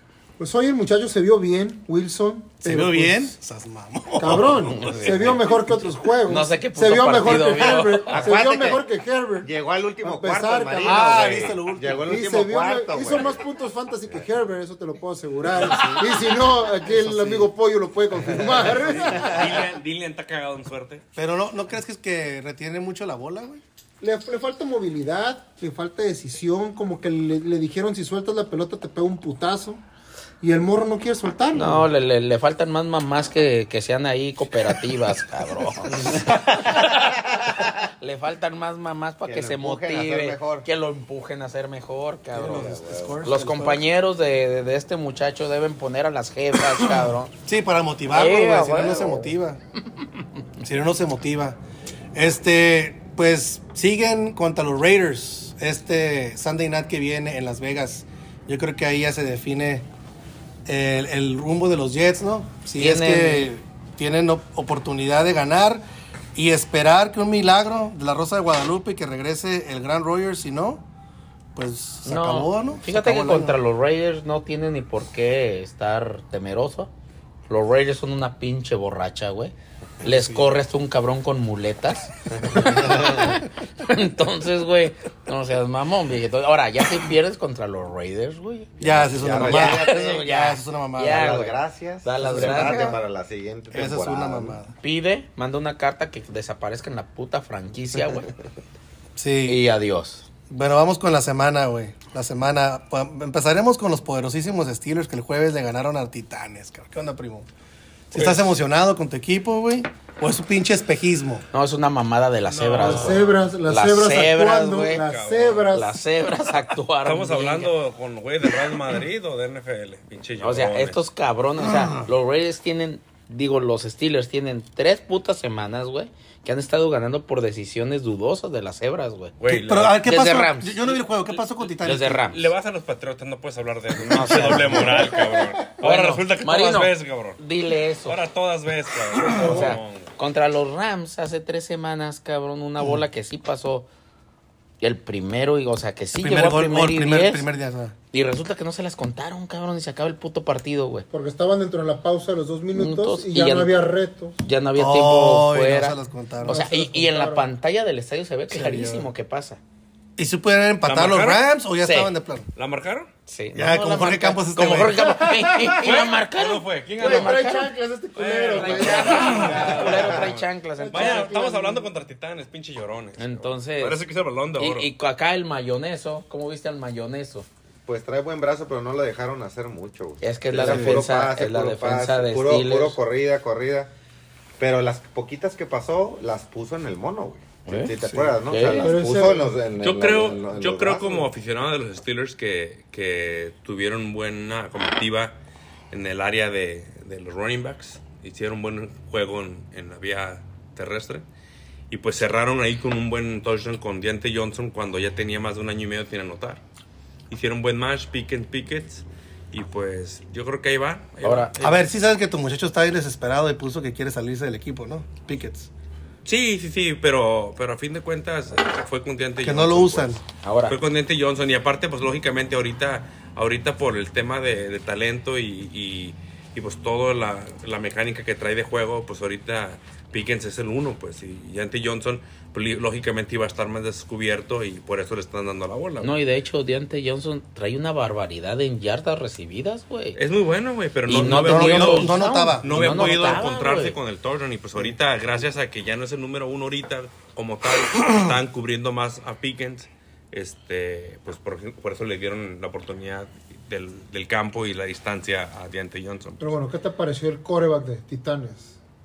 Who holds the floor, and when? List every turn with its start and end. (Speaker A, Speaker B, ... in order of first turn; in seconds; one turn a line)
Speaker A: 0.4-3.3
Speaker B: 2.6-5.1
Speaker A: 4.2-9.5
Speaker C: 4.7-5.5
Speaker C: 6.3-8.3
Speaker D: 8.1-8.8
Speaker D: 9.4-13.4
Speaker A: 10.0-19.6
Speaker B: 10.8-12.1
Speaker B: 15.6-16.1
Speaker D: 15.8-16.1
Speaker D: 17.0-17.4
Speaker D: 18.3-19.4
Speaker E: 19.1-21.1
Speaker B: 21.2-23.6
Speaker A: 24.0-29.8
Speaker A: 30.4-31.9
Speaker C: 31.5-47.3
Speaker D: 39.2-40.7
Speaker B: 42.3-43.8
Speaker B: 47.5-49.6
Speaker C: 48.1-49.3
Speaker B: 50.6-51.6
Speaker B: 52.1-59.9
Speaker B: 60.7-65.8
Speaker C: 62.8-63.5
Speaker B: 66.3-70.8
Speaker B: 71.5-73.6
Speaker C: 72.0-76.9
Speaker C: 77.5-93.0
Speaker B: 80.0-80.5
Speaker D: 82.4-83.3
Speaker B: 88.8-91.2
Speaker D: 88.8-90.3
Speaker D: 91.0-94.6
Speaker B: 92.2-93.0
Speaker B: 93.7-94.7
Speaker C: 94.8-98.3
Speaker B: 99.2-99.6
Speaker C: 99.5-100.2
Speaker B: 100.5-107.5
Speaker B: 108.1-111.5
Speaker E: 108.1-108.5
Speaker C: 111.5-115.0
Speaker E: 112.5-113.4
Speaker A: 112.8-116.0
Speaker E: 115.0-115.7
Speaker C: 115.7-117.7
Speaker E: 117.0-121.0
Speaker C: 120.4-129.3
Speaker B: 121.6-122.1
Speaker E: 129.4-130.0
Speaker B: 129.5-132.3
Speaker C: 130.0-131.0
Speaker C: 131.8-132.5
Speaker E: 132.3-137.4
Speaker C: 134.0-135.2
Speaker B: 134.1-135.0
Speaker A: 134.9-135.6
Speaker C: 135.8-138.2
Speaker E: 138.1-140.1
Speaker C: 139.3-143.9
Speaker C: 144.8-147.5
Speaker B: 146.2-147.9
Speaker C: 148.1-151.1
Speaker A: 151.1-154.4
Speaker C: 152.7-153.8
Speaker C: 154.4-159.6
Speaker B: 154.8-156.7
Speaker A: 156.4-157.5
Speaker B: 158.5-159.1
Speaker B: 160.2-162.5
Speaker E: 160.8-161.5
Speaker C: 161.8-162.1
Speaker E: 162.6-163.1
Speaker C: 163.3-167.7
Speaker B: 163.5-165.2
Speaker A: 165.0-166.1
Speaker E: 165.8-174.9
Speaker A: 167.0-170.2
Speaker C: 168.5-171.3
Speaker A: 170.8-171.9
Speaker C: 173.2-174.0
Speaker C: 174.6-177.5
Speaker D: 177.8-183.9
Speaker C: 180.2-183.0
Speaker B: 180.6-181.0
Speaker D: 184.6-191.3
Speaker C: 187.7-189.1
Speaker B: 188.0-188.3
Speaker A: 188.8-189.6
Speaker E: 189.8-195.3
Speaker E: 195.9-201.3
Speaker E: 201.9-206.6
Speaker E: 207.3-211.9
Speaker C: 211.2-211.5
Speaker B: 211.6-215.7
Speaker E: 216.2-236.1
Speaker B: 219.4-220.2
Speaker C: 220.4-220.8
Speaker C: 236.0-240.2
Speaker E: 240.2-256.5
Speaker C: 241.1-244.0
Speaker B: 241.1-243.4
Speaker A: 256.4-258.8